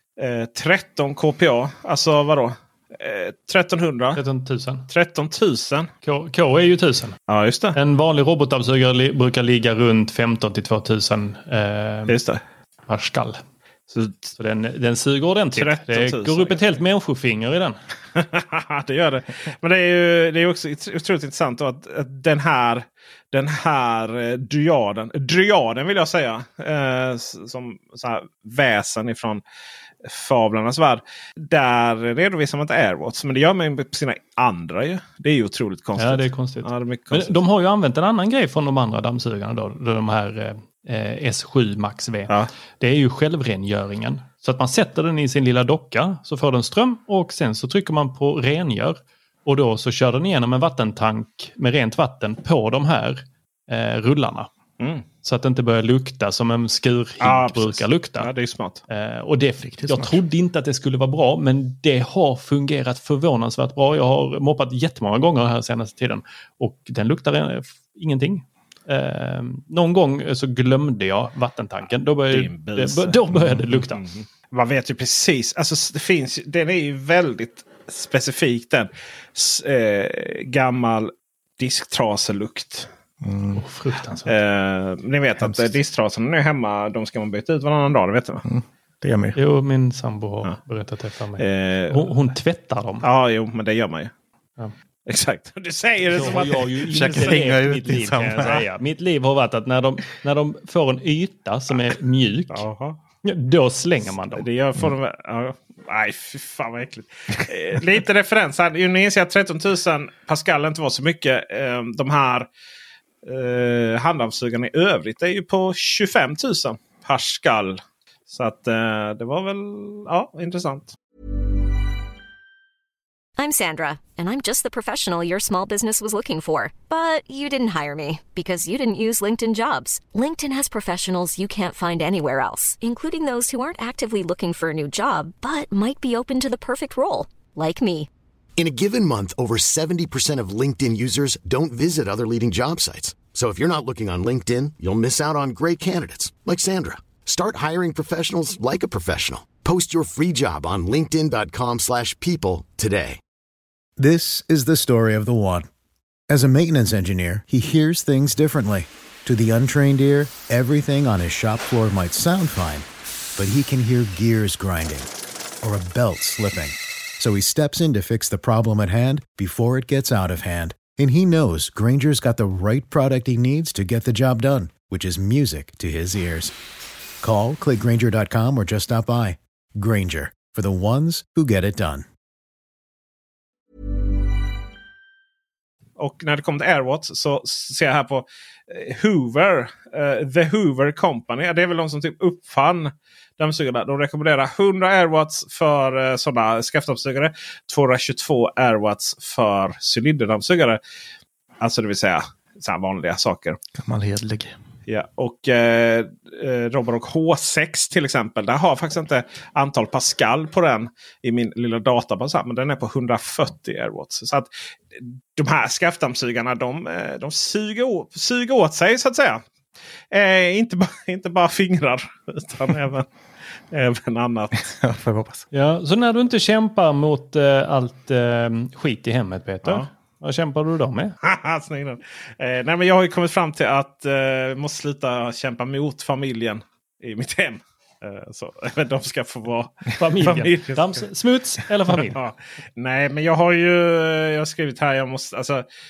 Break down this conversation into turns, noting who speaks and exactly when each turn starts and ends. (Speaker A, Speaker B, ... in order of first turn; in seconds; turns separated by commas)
Speaker A: 0.2-4.2, Speaker B: 4.2-4.9, Speaker A: 4.9-5.9, Speaker B: 6.0-7.2, Speaker A: 7.3-7.8, Speaker B: 7.7-12.2, Speaker A: 12.1-12.4, Speaker B: 12.9-13.4, Speaker A: 13.9-14.3, Speaker B: 14.3-17.8, Speaker A: 15.5-16.8, Speaker A: 18.1-29.4, Speaker A: 30.0-37.4, Speaker B: 36.0-54.5, Speaker A: 54.8-55.0, Speaker B: 55.2-58.3, Speaker A: 57.2-58.8, Speaker B: 58.9-74.0, Speaker C: 59.6-60.2, Speaker A: 72.3-82.9, Speaker C: 73.3-73.6, Speaker C: 83.2-83.6, Speaker B: 83.5-84.3, Speaker A: 84.2-88.4, Speaker C: 88.4-89.4, Speaker B: 89.4-93.1, Speaker A: 91.4-92.1, Speaker A: 93.0-94.1, Speaker A: 95.1-97.5, Speaker B: 96.1-102.6, Speaker C: 96.9-98.6, Speaker A: 98.4-98.6, Speaker A: 102.5-103.0, Speaker B: 103.2-104.5, Speaker A: 104.4-112.5, Speaker A: 113.2-120.9, Speaker D: 123.4-138.1, Speaker E: 138.6-153.2, Speaker F: 154.0-155.7, Speaker F: 156.3-162.8, Speaker F: 163.4-165.1, Speaker F: 165.6-176.5, Speaker F: 177.2-182.1, Speaker A: 186.0-200.8, Speaker A: 201.6-203.6, Speaker C: 203.7-204.5, Speaker A: 204.9-219.4, Speaker A: 220.1-223.1, Speaker A: 223.7-224.7, Speaker C: 224.7-225.4, Speaker B: 225.5-231.1, Speaker A: 231.2-241.0, Speaker B: 240.0-242.2, Speaker A: 241.9-245.6